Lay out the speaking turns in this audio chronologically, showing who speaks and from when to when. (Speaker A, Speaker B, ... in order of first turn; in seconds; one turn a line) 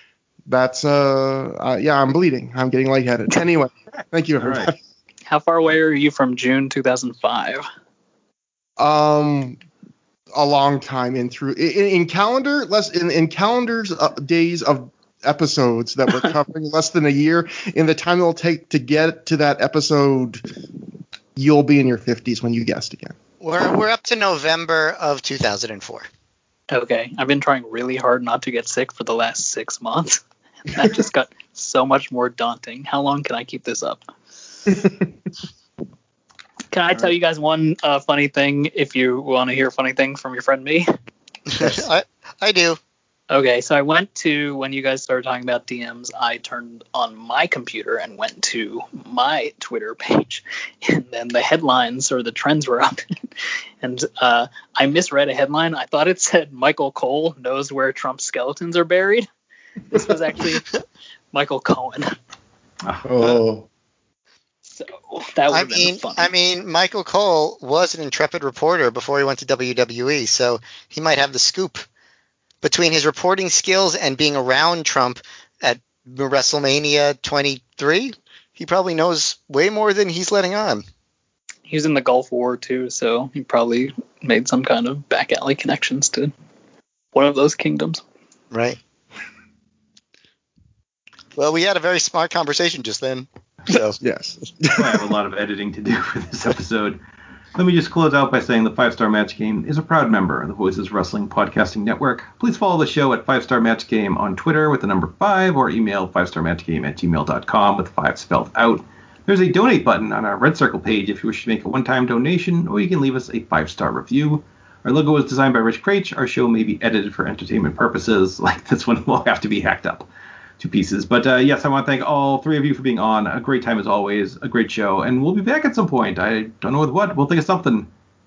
Speaker A: 0.5-4.8
Speaker B: 3.9-4.7
Speaker C: 5.3-7.7
Speaker A: 8.8-9.6
Speaker A: 10.3-20.4
Speaker A: 21.4-23.1
Speaker D: 23.4-26.1
Speaker C: 26.7-34.0
Speaker C: 36.7-40.9
Speaker D: 41.5-42.8
Speaker C: 43.3-53.2
Speaker C: 53.8-59.3
Speaker C: 59.9-60.7
Speaker C: 61.3-62.1
Speaker B: 62.8-63.4
Speaker A: 63.0-63.7
Speaker C: 64.7-66.3
Speaker D: 65.5-71.8
Speaker D: 72.6-80.8
Speaker C: 81.7-86.3
Speaker C: 87.1-88.0
Speaker D: 88.5-88.8
Speaker D: 91.4-94.0
Speaker A: 94.0-95.1
Speaker B: 94.7-97.0
Speaker B: 97.5-120.1
Speaker B: 120.6-127.9